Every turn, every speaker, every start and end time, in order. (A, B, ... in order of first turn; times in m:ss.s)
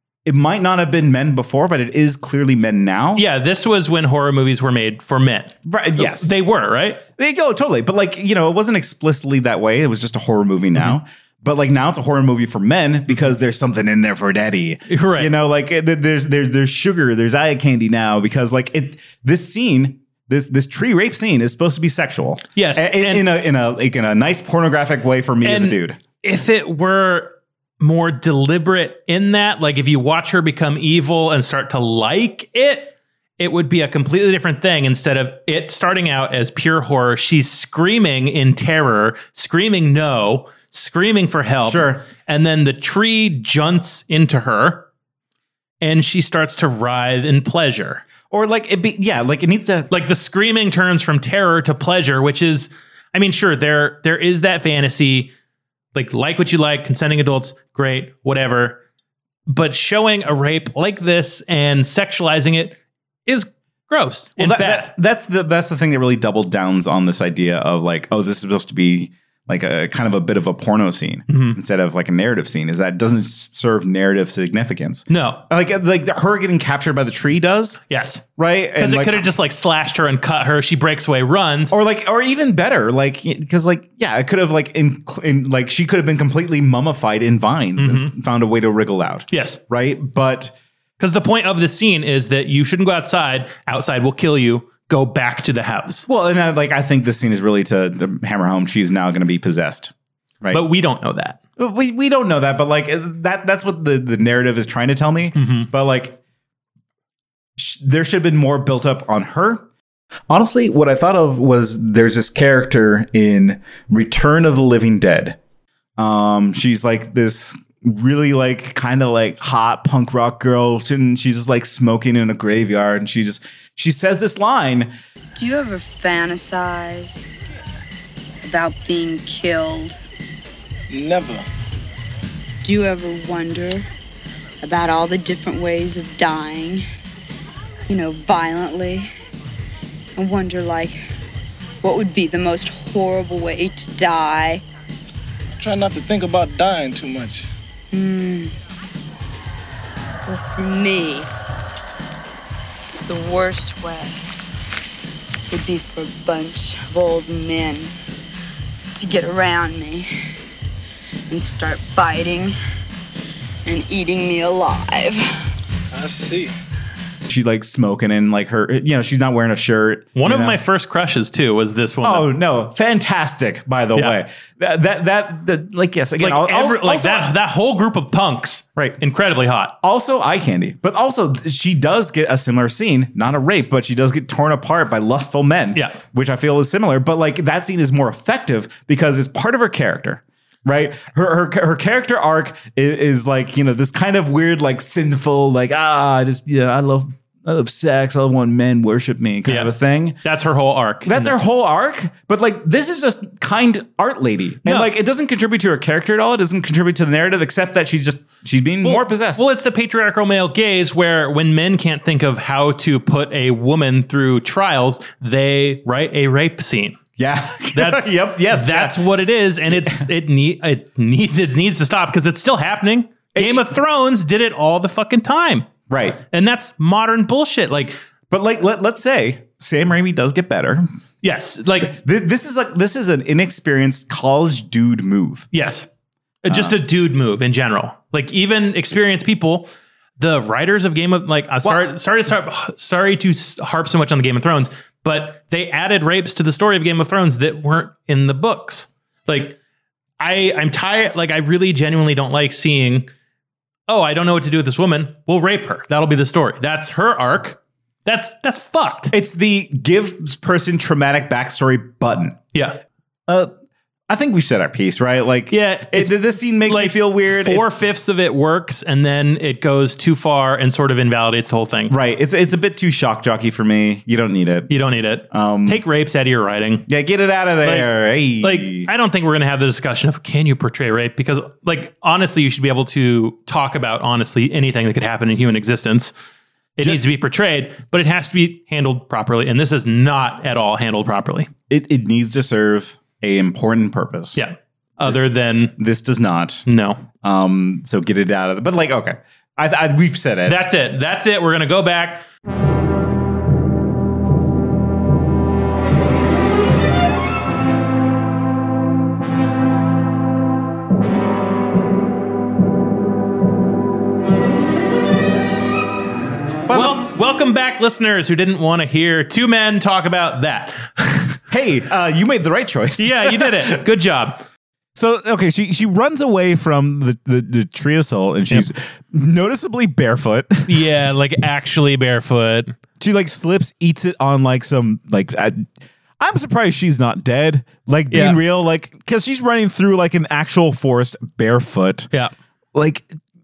0:00.2-0:03.2 A
0:03.2-0:07.0 B
0:05.6-0:06.3 A
0:07.2-0:26.0 A
0:14.9-0:15.3 B
0:22.6-0:23.3 B
0:25.4-0:44.9 B
0:41.6-0:42.0 A
0:45.8-0:48.0 B
0:48.3-0:49.9 A
0:49.9-0:55.3 B
0:55.9-0:58.8 B
0:59.5-1:04.9 B
1:04.4-1:17.8 A
1:11.3-1:11.6 B
1:15.1-1:15.4 B
1:17.9-1:18.2 B
1:18.4-1:19.3 A
1:18.8-1:21.7 B
1:21.7-1:30.6 A
1:27.8-1:28.1 B
1:29.3-1:29.6 B
1:31.0-1:36.1 B
1:36.1-1:40.6 A
1:40.5-1:41.4 B
1:41.6-1:46.2 A
1:45.4-1:45.7 B
1:47.6-1:49.6 A
1:50.3-1:55.4 A
1:56.0-2:04.9 A
2:05.3-2:07.3 C
2:08.4-2:10.0 C
2:10.9-2:11.4 D
2:12.6-2:13.9 C
2:14.6-2:16.8 C
2:17.9-2:19.1 C
2:20.2-2:21.0 C
2:21.8-2:24.6 C
2:25.5-2:27.5 D
2:27.9-2:28.6 C
2:30.3-2:31.3 C
2:33.0-2:34.3 C
2:35.5-2:37.9 C
2:38.9-2:40.1 C
2:41.3-2:42.6 C
2:43.6-2:45.5 C
2:45.9-2:46.5 D
2:47.3-2:50.6 A
2:50.2-2:52.3 B
2:52.0-2:57.3 A
2:56.2-2:59.7 B
2:59.8-3:20.2 A
3:05.7-3:06.0 B
3:19.4-3:19.7 B
3:20.2-3:21.3 B
3:21.0-3:29.4 A
3:24.6-3:24.9 B
3:28.8-3:37.0 B
3:37.2-3:39.0 A
3:37.7-3:45.7 B
3:39.7-3:40.1 A
3:43.3-3:43.6 A
3:45.9-3:46.2 A
3:46.3-3:48.0 B
3:48.3-3:50.9 A
3:51.2-3:52.0 B
3:51.8-3:55.5 A
3:55.5-3:55.9 B
3:56.4-4:09.6 B
3:56.5-3:56.8 A
4:10.2-4:13.1 B
4:13.9-4:19.1 B
4:19.1-4:22.4 A
4:22.5-4:22.8 B
4:24.1-4:27.8 A
4:25.5-4:31.9 B
4:31.9-4:34.7 A
4:34.7-4:36.9 B
4:35.3-4:35.8 A
4:36.9-4:38.9 A
4:37.6-4:46.1 B
4:46.8-4:51.5 B
4:51.7-4:54.4 A
4:54.3-4:55.7 B
4:55.8-4:56.6 A
4:56.6-4:57.0 B
4:57.2-5:00.6 A
5:00.4-5:02.2 B
5:16.7-5:17.0 A
5:16.7-5:20.9 B
5:21.5-5:23.8 A
5:23.0-5:24.4 B
5:25.0-5:30.8 A
5:30.7-5:32.7 B
5:33.0-5:42.1 A
5:38.1-5:38.4 B
5:42.7-5:43.1 A